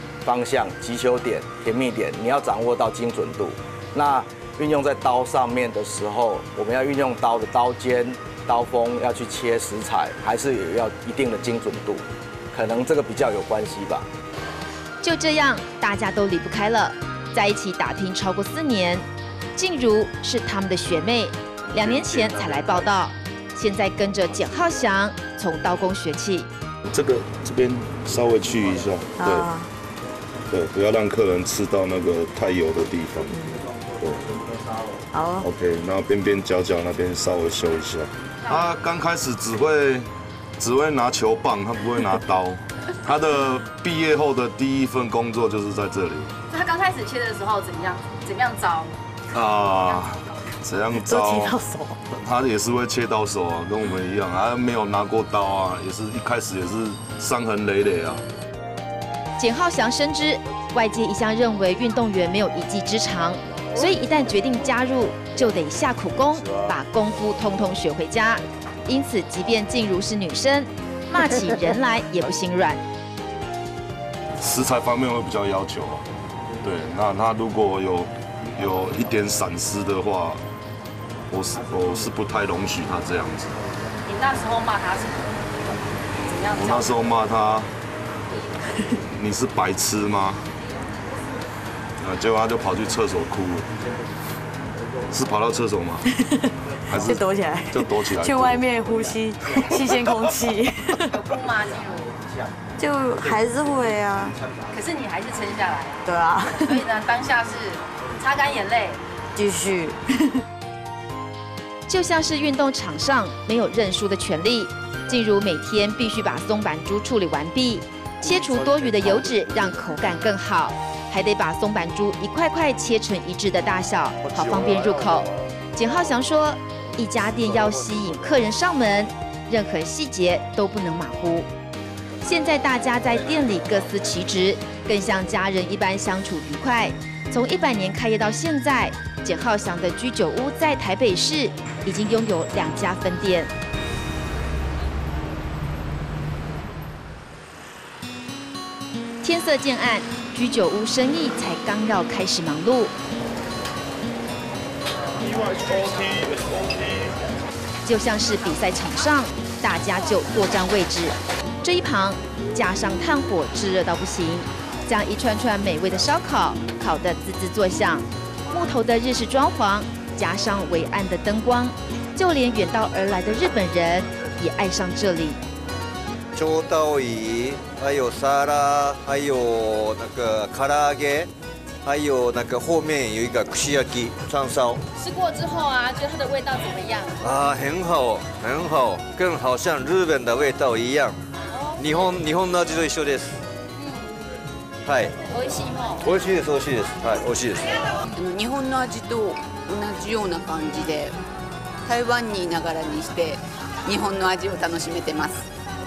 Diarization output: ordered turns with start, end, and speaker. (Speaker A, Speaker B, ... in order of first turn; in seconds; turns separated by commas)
Speaker A: 0.2-14.1, Speaker B: 15.0-26.5, Speaker C: 26.9-29.5, Speaker D: 29.2-29.7, Speaker C: 30.5-34.3, Speaker D: 35.1-35.5, Speaker C: 35.4-40.1, Speaker C: 40.6-46.3, Speaker E: 46.5-49.0, Speaker C: 49.3-51.6, Speaker D: 51.0-52.0, Speaker C: 52.2-58.2, Speaker B: 59.4-72.8, Speaker C: 74.4-76.0, Speaker C: 76.6-80.4, Speaker C: 81.3-83.6, Speaker E: 84.0-85.5, Speaker E: 86.2-86.9, Speaker C: 86.5-87.7, Speaker C: 89.1-90.4, Speaker C: 92.0-93.7, Speaker C: 95.1-96.0, Speaker C: 96.9-98.7, Speaker D: 96.9-101.1, Speaker E: 101.1-102.2, Speaker D: 102.8-104.4, Speaker E: 104.7-106.0, Speaker D: 106.0-106.8, Speaker E: 106.6-109.0, Speaker D: 109.3-110.3, Speaker B: 111.9-131.5, Speaker B: 132.2-143.5, Speaker B: 149.2-152.9, Speaker C: 155.4-157.0, Speaker B: 157.8-175.4, Speaker F: 176.3-181.3, Speaker F: 181.8-184.8, Speaker E: 185.0-187.2, Speaker F: 187.2-191.2, Speaker E: 191.4-191.8, Speaker F: 191.8-193.4, Speaker E: 193.8-194.1, Speaker F: 194.8-195.1, Speaker E: 195.3-196.1, Speaker F: 196.0-197.7, Speaker G: 198.1-201.2, Speaker G: 201.8-205.4